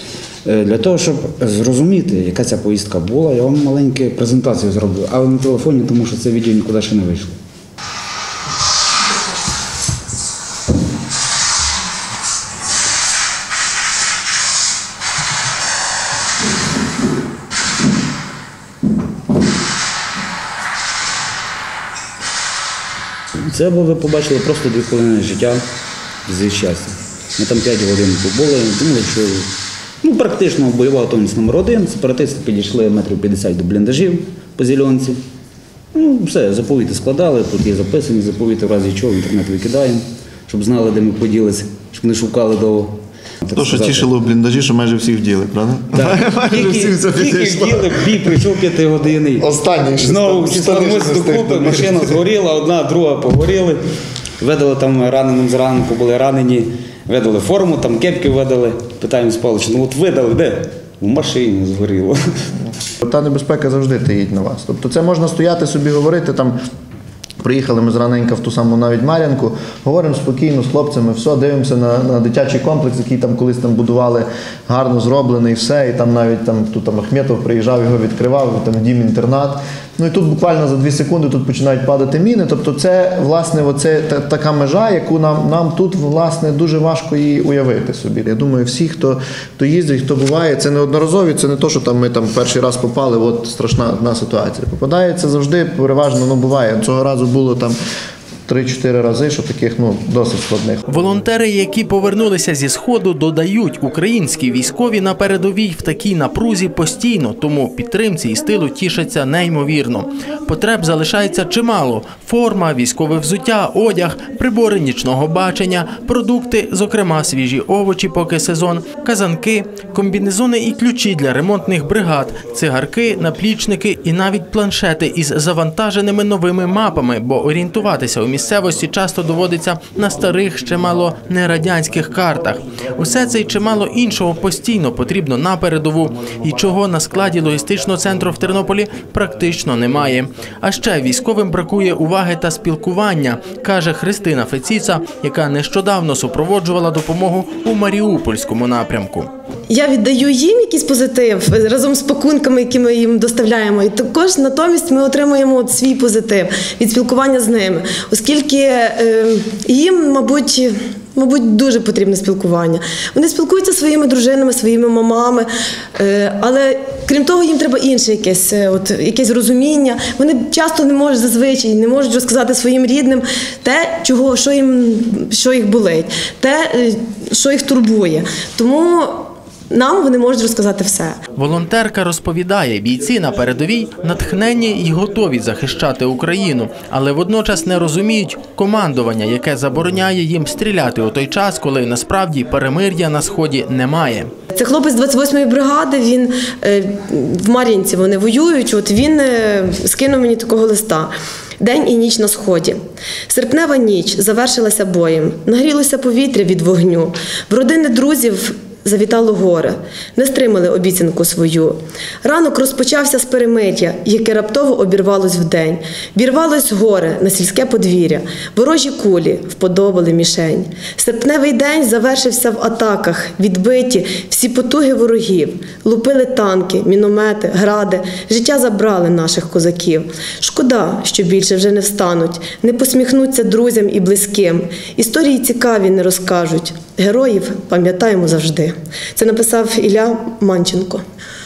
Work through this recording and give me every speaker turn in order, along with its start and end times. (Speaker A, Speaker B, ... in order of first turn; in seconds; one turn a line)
Speaker A: 0.5-7.4
Speaker A: 23.4-25.6
Speaker A: 26.3-35.2
Speaker A: 35.9-44.1
Speaker B: 43.6-48.5
Speaker A: 45.9-53.8
Speaker B: 49.4-52.2
Speaker A: 54.4-62.2
Speaker B: 63.0-66.6
Speaker B: 67.4-97.8
Speaker B: 98.5-100.9
Speaker C: 100.9-149.3
Speaker D: 149.7-181.2
Speaker C: 181.3-194.3
Speaker D: 194.5-202.8
Speaker D: 203.3-241.0